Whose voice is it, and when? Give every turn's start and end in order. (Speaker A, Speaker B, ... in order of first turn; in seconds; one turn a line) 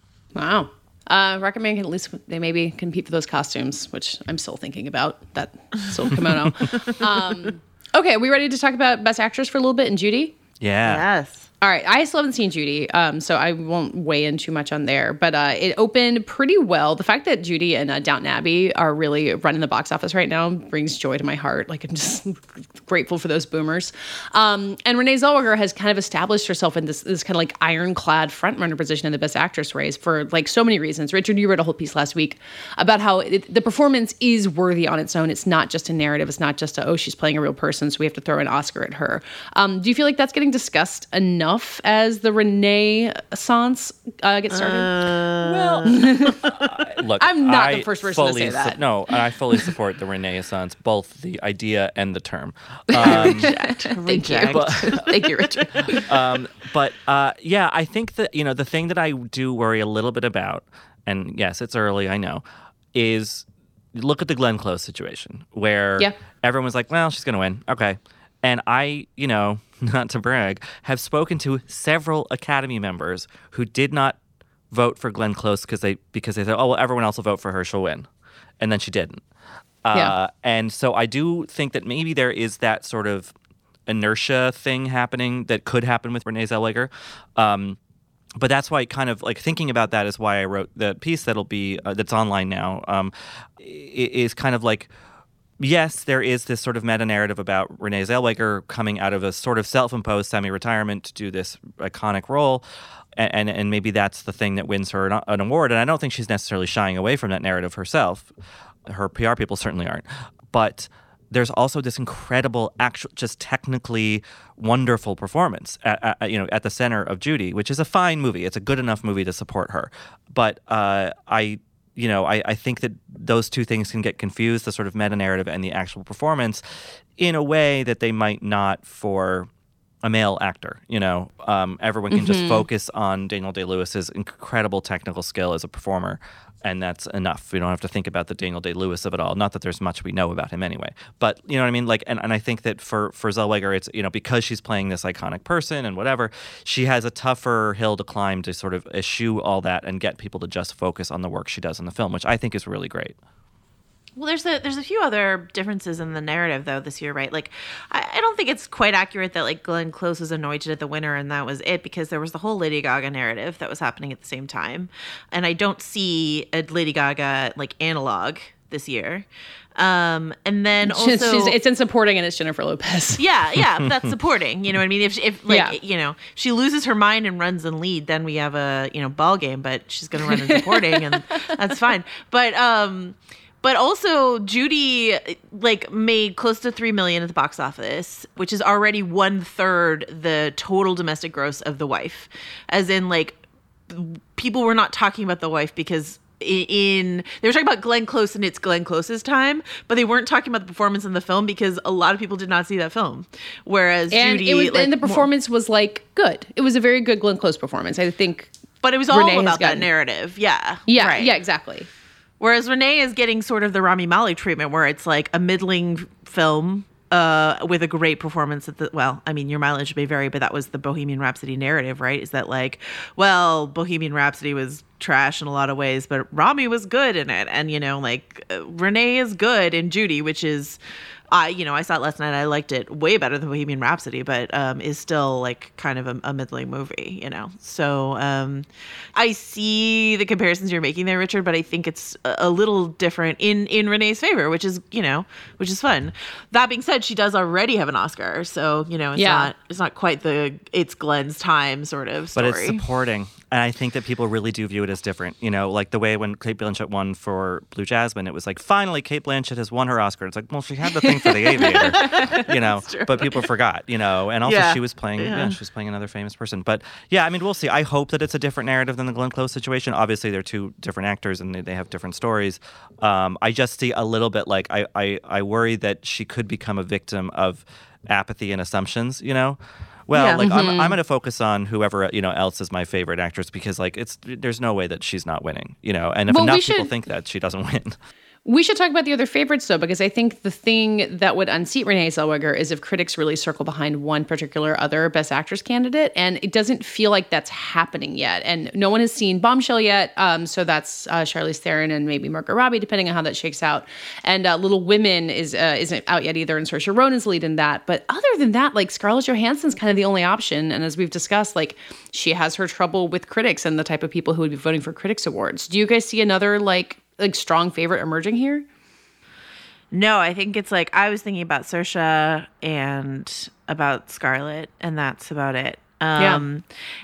Speaker A: 0.3-10.3
Speaker B: 10.6-11.1
Speaker C: 10.8-11.5
Speaker A: 11.6-44.9
Speaker C: 44.5-46.7
Speaker B: 45.5-45.9
Speaker A: 45.9-46.4
Speaker B: 46.5-53.5
Speaker A: 47.2-48.8
Speaker A: 52.9-56.1
Speaker C: 52.9-56.1
Speaker B: 54.5-55.0
Speaker B: 55.9-62.4
Speaker B: 62.9-74.2
Speaker B: 74.7-78.1
Speaker B: 78.6-79.2
Speaker B: 79.8-83.3
Speaker B: 83.9-87.8
Speaker B: 88.4-94.9
Speaker B: 95.6-102.7
Speaker B: 103.2-108.3
Speaker B: 108.9-126.6
Speaker B: 127.2-129.5
Speaker B: 130.0-153.2
Speaker A: 132.1-132.7
Speaker C: 154.2-171.6
Speaker A: 170.8-173.2
Speaker C: 173.2-205.3
Speaker A: 175.5-175.8
Speaker A: 180.3-181.1
Speaker A: 204.1-208.5
Speaker C: 208.8-211.4
Speaker A: 209.1-209.9
Speaker A: 210.9-211.9
Speaker C: 212.4-230.8
Speaker C: 231.3-252.8
Speaker A: 249.2-249.5
Speaker B: 252.4-288.0
Speaker C: 261.2-263.4
Speaker C: 264.4-265.6
Speaker C: 280.1-280.5
Speaker A: 280.4-281.0
Speaker A: 286.3-286.9
Speaker A: 288.4-318.6
Speaker C: 319.9-326.7
Speaker A: 326.2-326.4